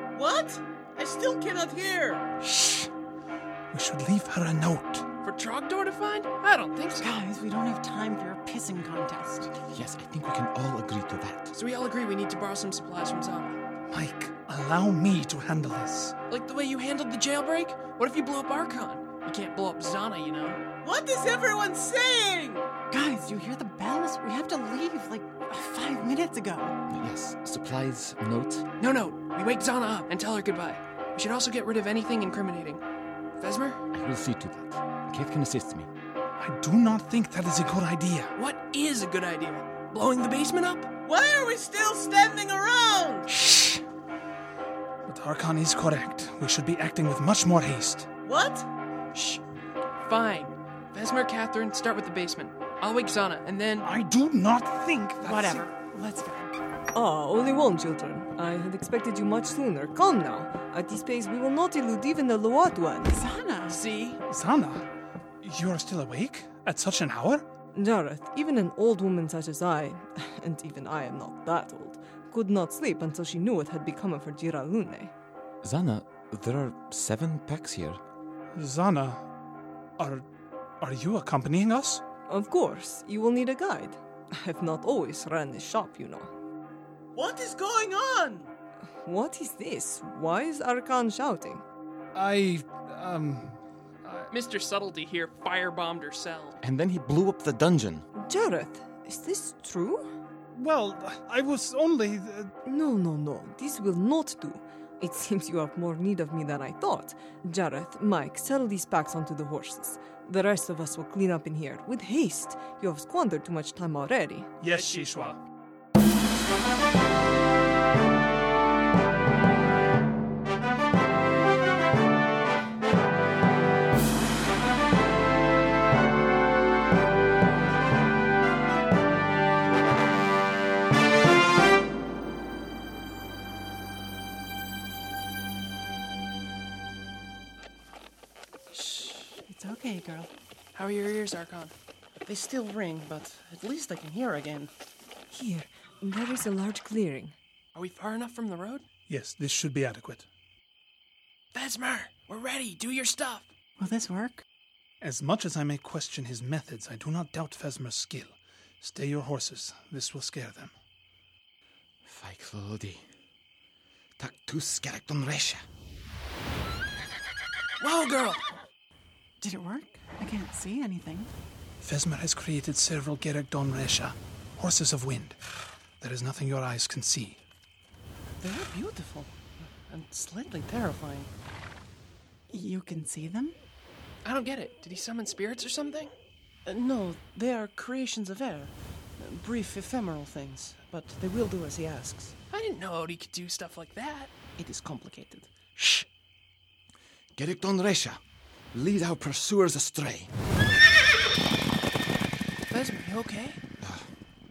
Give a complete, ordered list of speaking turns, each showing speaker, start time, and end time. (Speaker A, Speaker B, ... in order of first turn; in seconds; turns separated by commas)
Speaker A: 0.1-2.3, Speaker B: 2.5-2.9, Speaker B: 3.7-5.1, Speaker C: 5.2-7.1, Speaker D: 6.9-9.5, Speaker E: 9.6-11.5, Speaker C: 11.5-13.6, Speaker B: 13.9-16.1, Speaker C: 16.3-20.6, Speaker A: 20.8-22.6, Speaker D: 22.9-26.8, Speaker E: 26.9-28.6, Speaker C: 28.8-32.8, Speaker C: 33.4-33.9, Speaker E: 33.9-35.9, Speaker B: 36.4-38.3, Speaker C: 38.4-41.0, Speaker A: 41.0-43.3, Speaker B: 45.1-48.1, Speaker A: 48.2-48.7, Speaker C: 50.0-53.9, Speaker B: 53.8-55.7, Speaker D: 55.2-56.5, Speaker F: 56.9-63.2, Speaker D: 63.1-63.8, Speaker C: 63.7-64.2, Speaker B: 64.3-64.9, Speaker B: 65.4-67.5, Speaker F: 67.8-75.1, Speaker E: 75.6-78.0, Speaker B: 78.5-79.2, Speaker B: 80.0-80.2, Speaker B: 80.8-82.0, Speaker F: 82.3-86.3, Speaker A: 87.2-88.5, Speaker F: 89.0-91.7, Speaker B: 92.2-94.3, Speaker C: 94.3-96.6, Speaker E: 96.6-98.1, Speaker F: 98.2-100.1, Speaker B: 100.5-102.5, Speaker F: 102.7-114.5, Speaker B: 114.6-115.4, Speaker C: 114.7-115.4, Speaker D: 138.7-140.3, Speaker C: 140.8-141.7, Speaker A: 142.2-144.7, Speaker F: 145.3-147.4, Speaker C: 147.8-148.9, Speaker B: 149.1-150.3, Speaker C: 151.6-153.5, Speaker D: 153.8-154.4, Speaker B: 155.0-160.7, Speaker E: 162.1-163.1, Speaker E: 164.2-165.6, Speaker C: 167.8-168.3, Speaker A: 167.9-168.4, Speaker D: 169.4-171.3, Speaker B: 171.8-175.4, Speaker B: 176.0-177.4, Speaker A: 178.4-181.3, Speaker D: 182.5-183.6, Speaker C: 184.2-186.1, Speaker A: 186.7-192.4, Speaker C: 192.5-194.3, Speaker A: 194.6-196.1, Speaker E: 197.4-198.2, Speaker E: 198.7-200.4, Speaker A: 202.7-203.6, Speaker E: 203.8-204.1